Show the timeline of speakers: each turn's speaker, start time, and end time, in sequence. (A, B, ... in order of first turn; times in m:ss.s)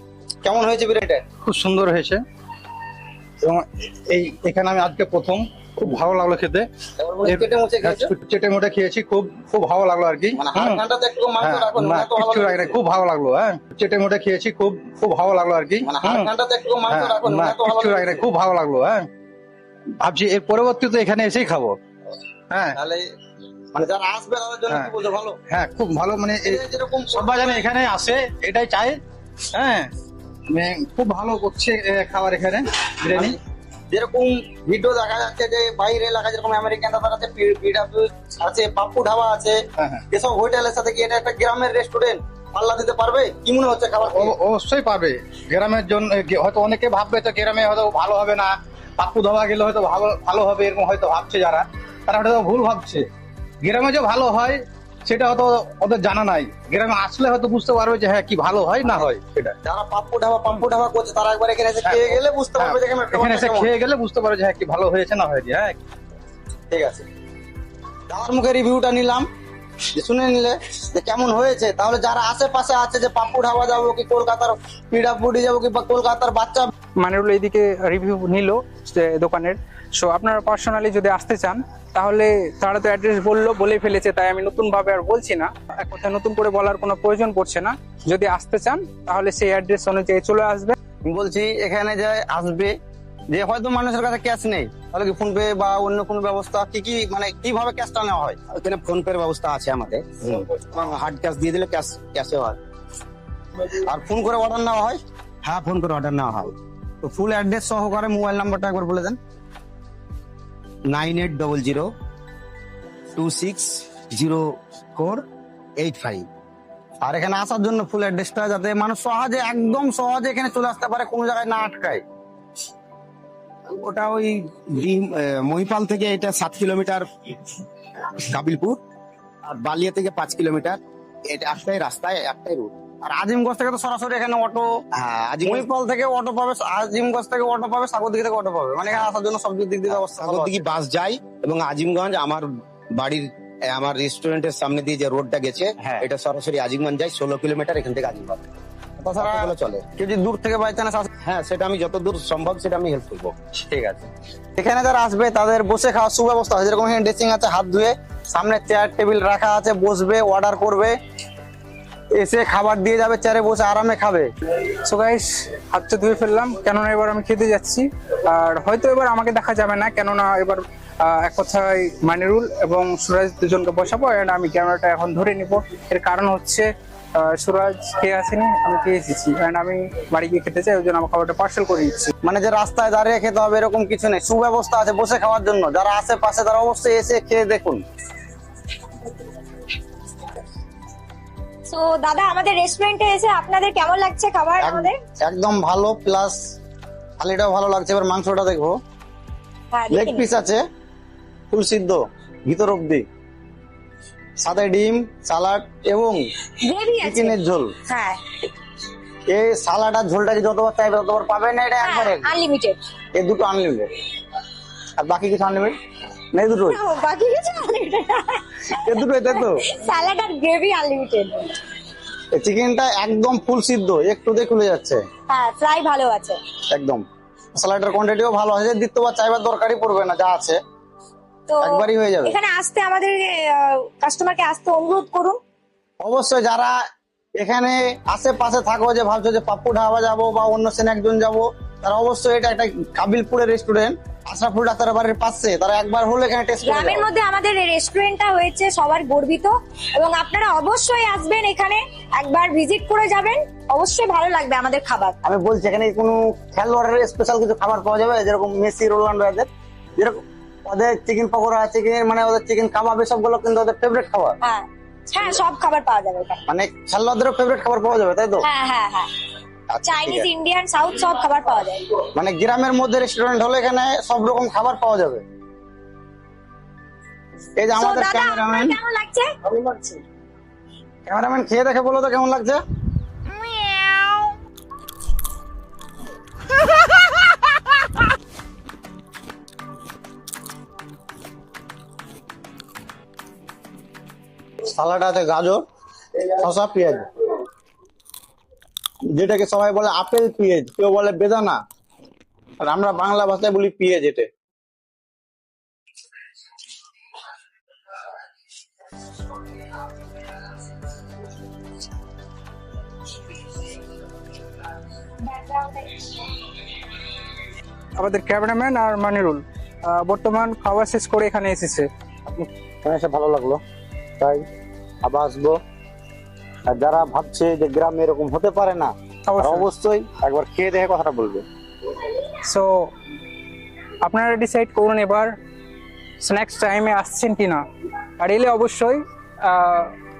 0:00.4-0:01.2 A
0:01.4-0:02.2 B
0:03.4-0:06.7 B
0:07.0-0:08.1 A
0:07.2-0:10.8 B
0:10.3-0:12.8 A
0:11.4-0:16.3 B
0:15.8-0:18.2 A
0:16.9-0:19.1 B
0:20.0-0:21.8 B
0:22.5-0:22.8 B
0:22.7-0:23.0 A
0:23.7-0:25.4 A
0:25.5-0:26.6 B
0:26.4-0:27.6 A
0:27.1-0:29.0 B
0:29.5-0:29.9 B
0:30.5-0:33.4 B
0:33.9-0:39.6 A
0:39.8-0:40.0 B
0:40.1-0:44.3 A
0:44.1-0:53.0 B
0:53.6-0:59.6 B
0:59.6-1:03.7 A
1:01.8-1:05.8 B
1:06.7-1:07.0 A
1:08.1-1:09.3 A
1:09.9-1:16.7 A
1:17.0-1:30.8 C
1:31.0-1:32.7 A
1:33.3-1:38.4 A
1:38.5-1:42.6 D
1:43.8-1:45.0 A
1:45.4-1:46.5 D
1:47.0-1:49.2 A
1:50.9-1:51.9 D
1:53.2-1:55.2 D
1:55.8-1:56.3 D
1:57.0-2:02.0 A
2:03.7-2:07.0 D
2:08.2-2:08.8 D
2:09.4-2:10.8 D
2:11.3-2:12.7 D
2:13.1-2:14.7 A
2:15.0-2:15.7 D
2:15.4-2:20.7 A
2:19.9-2:28.4 D
2:29.0-2:31.1 A
2:29.2-2:29.8 D
2:31.2-2:33.3 D
2:33.7-2:40.9 A
2:42.1-2:44.3 A
2:44.7-3:02.1 C
3:02.2-3:07.8 A
3:11.7-3:15.0 E
3:14.6-3:16.4 A
3:17.2-3:18.8 A
3:19.7-3:20.3 E
3:19.9-3:20.6 A
3:21.5-3:23.0 A
3:24.4-3:26.2 A
3:26.6-3:28.2 E
3:27.0-3:27.7 A
3:29.3-3:32.3 A
3:31.8-3:32.8 E
3:33.1-3:33.9 A
3:35.0-3:35.7 A
3:36.3-3:36.8 A
3:36.6-3:41.6 E
3:38.8-3:39.6 A
3:42.3-3:45.0 A
3:45.3-3:46.4 E
3:46.7-3:47.0 A
3:47.6-3:50.6 A
3:51.5-3:55.4 E
3:51.6-3:52.4 A
3:56.0-3:56.7 A
3:57.4-4:07.1 A
4:06.6-4:15.2 E
4:15.2-4:24.4 A
4:24.4-4:26.4 E
4:26.5-4:28.4 A
4:28.4-4:29.1 E
4:29.7-4:30.3 A
4:29.8-4:32.0 E
4:32.1-4:35.2 A
4:37.6-4:38.8 A
4:37.7-4:40.0 E
4:41.0-4:42.6 A
4:43.4-4:44.2 E
4:54.7-4:55.6 A
4:56.3-4:57.0 A
4:59.1-5:01.6 A
5:02.6-5:04.3 A
5:15.2-5:16.1 E
5:18.0-5:21.9 C
5:22.3-5:23.6 A
5:24.2-5:24.4 A
5:25.0-5:25.6 A
5:26.7-5:31.4 A
5:29.3-5:29.7 C
5:32.4-5:32.9 C
5:34.0-5:35.3 C
5:36.2-5:37.6 C
5:38.2-5:39.9 C